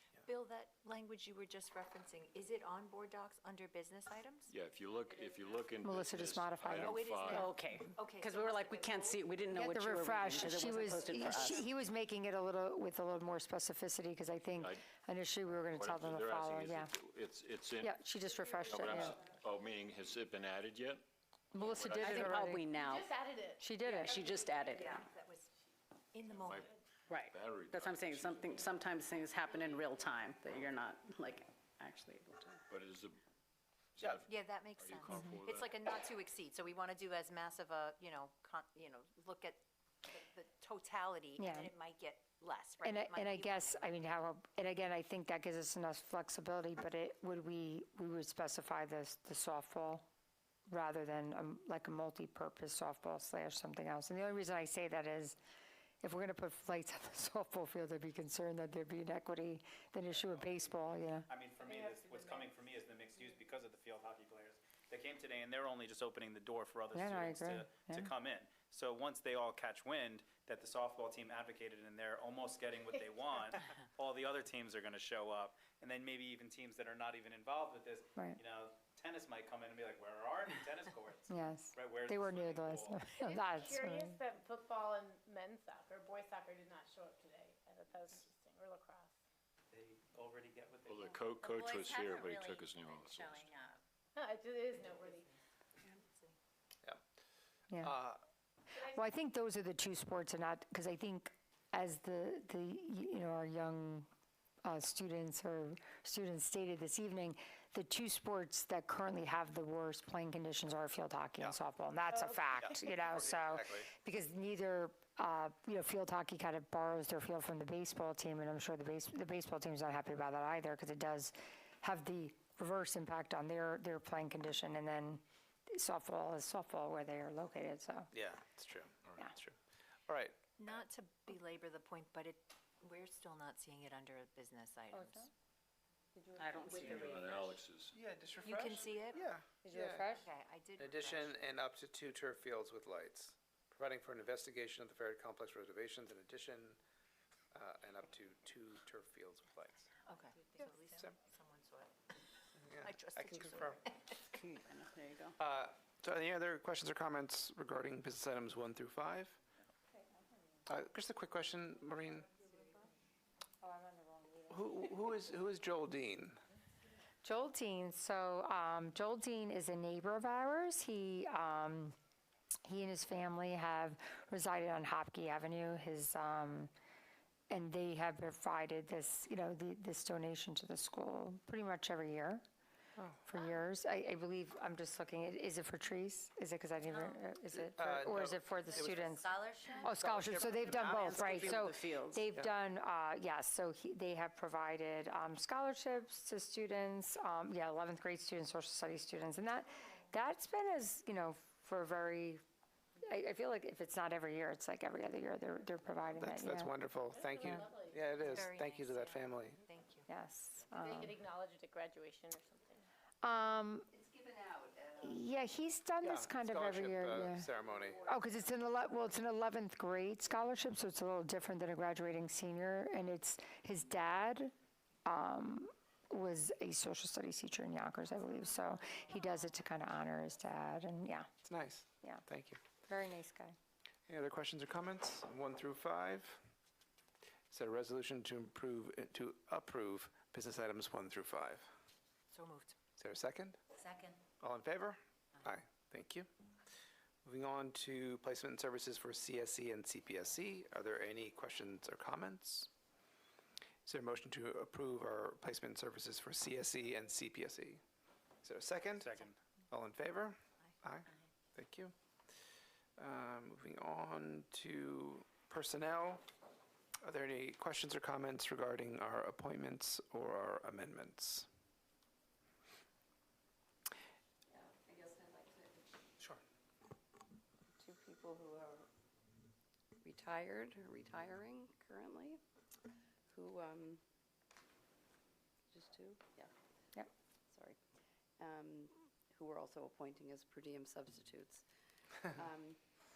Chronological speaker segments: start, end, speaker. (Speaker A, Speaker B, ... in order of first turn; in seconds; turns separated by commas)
Speaker A: 0.2-4.5, Speaker B: 4.5-7.5, Speaker C: 5.8-7.5, Speaker A: 6.8-9.4, Speaker D: 7.3-11.7, Speaker C: 9.5-16.9, Speaker B: 14.6-14.9, Speaker B: 15.7-17.9, Speaker C: 17.8-19.2, Speaker B: 18.7-21.1, Speaker C: 21.5-22.7, Speaker B: 21.6-22.4, Speaker D: 22.0-23.1, Speaker E: 22.7-25.7, Speaker C: 23.6-24.2, Speaker D: 23.9-25.1, Speaker A: 24.7-25.5, Speaker A: 26.1-26.7, Speaker E: 26.2-26.8, Speaker B: 26.4-28.9, Speaker D: 27.1-32.6, Speaker A: 29.4-29.8, Speaker B: 32.7-33.2, Speaker B: 34.0-35.8, Speaker A: 34.3-43.9, Speaker C: 41.4-41.7, Speaker C: 42.8-50.0, Speaker C: 50.7-55.4, Speaker C: 56.0-61.3, Speaker F: 60.2-60.6, Speaker F: 61.3-83.0, Speaker E: 61.6-62.6, Speaker C: 66.9-68.1, Speaker C: 78.1-78.4, Speaker C: 81.3-84.2, Speaker E: 83.2-89.2, Speaker F: 89.7-91.3, Speaker B: 90.9-93.6, Speaker A: 91.1-93.8, Speaker E: 94.1-95.3, Speaker A: 94.8-95.3, Speaker A: 95.8-96.4, Speaker C: 97.7-98.0, Speaker G: 97.8-98.2, Speaker E: 98.8-99.0, Speaker C: 98.9-104.0, Speaker C: 104.6-128.1, Speaker G: 112.5-113.9, Speaker G: 128.1-129.6, Speaker G: 130.1-130.8, Speaker A: 130.6-135.2, Speaker C: 134.9-135.3, Speaker C: 136.2-136.9, Speaker D: 136.4-137.3, Speaker B: 136.7-138.0, Speaker G: 137.9-140.2, Speaker A: 138.4-139.2, Speaker C: 139.6-140.3, Speaker A: 140.2-141.3, Speaker G: 140.8-146.8, Speaker G: 147.5-149.9, Speaker A: 150.1-152.1, Speaker G: 152.6-153.9, Speaker A: 152.8-154.1, Speaker D: 154.2-155.3, Speaker G: 155.4-159.4, Speaker G: 160.7-162.4, Speaker C: 163.6-165.4, Speaker G: 164.5-166.4, Speaker C: 167.2-171.9, Speaker C: 172.7-176.7, Speaker C: 177.5-182.4, Speaker C: 183.2-189.3, Speaker A: 186.9-187.2, Speaker G: 187.8-191.7, Speaker A: 188.7-190.4, Speaker C: 189.8-202.4, Speaker D: 190.7-192.3, Speaker C: 203.0-206.7, Speaker G: 206.1-209.6, Speaker E: 207.1-208.4, Speaker A: 208.3-210.0, Speaker C: 210.1-211.2, Speaker E: 210.8-212.8, Speaker C: 213.2-213.9, Speaker H: 214.2-214.7, Speaker C: 215.0-224.5, Speaker G: 216.0-218.0, Speaker C: 225.1-231.3, Speaker G: 231.4-232.6, Speaker C: 232.0-232.2, Speaker C: 232.8-233.5, Speaker G: 234.1-236.4, Speaker G: 237.5-241.7, Speaker A: 242.3-242.8, Speaker G: 243.0-243.6, Speaker A: 243.8-244.2, Speaker G: 244.4-246.3, Speaker G: 247.2-252.7, Speaker G: 253.9-257.8, Speaker G: 258.4-261.9, Speaker F: 258.9-259.4, Speaker G: 263.0-266.2, Speaker G: 267.0-271.5, Speaker H: 274.5-275.8, Speaker H: 277.8-278.9, Speaker H: 280.0-282.4, Speaker H: 283.3-284.0, Speaker H: 285.7-286.5, Speaker H: 287.5-287.8, Speaker H: 288.4-291.6, Speaker H: 292.3-292.8